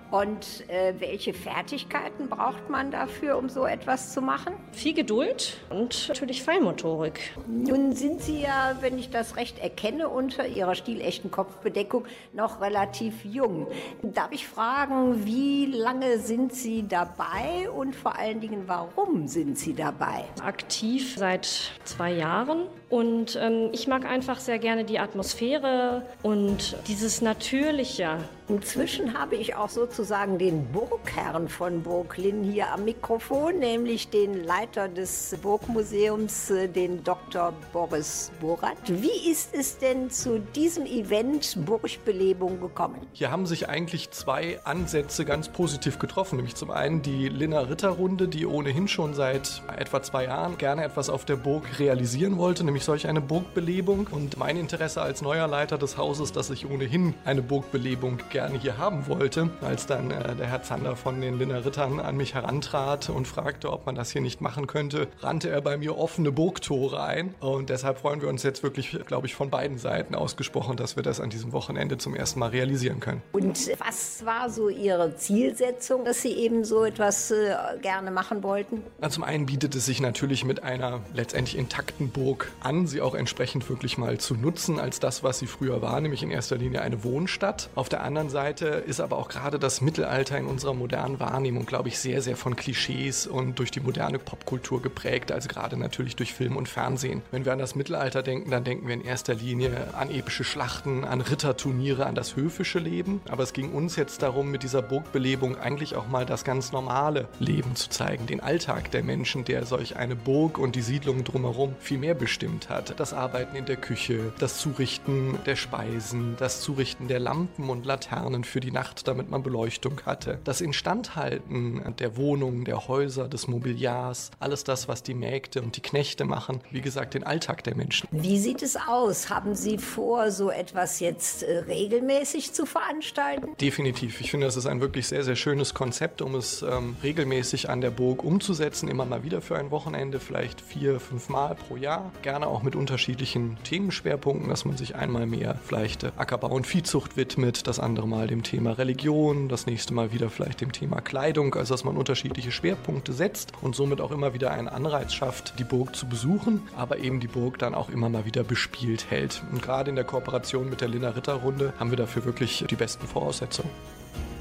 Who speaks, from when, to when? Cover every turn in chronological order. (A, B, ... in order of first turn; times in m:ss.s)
0:00.1-0:04.6 A
0:04.7-0:07.3 B
0:07.4-0:20.3 A
0:20.4-0:28.3 B
0:28.5-0:43.1 A
0:43.2-1:13.2 C
1:13.3-1:18.9 A
1:19.0-2:08.0 C
2:08.1-2:13.6 A
2:13.6-2:43.7 C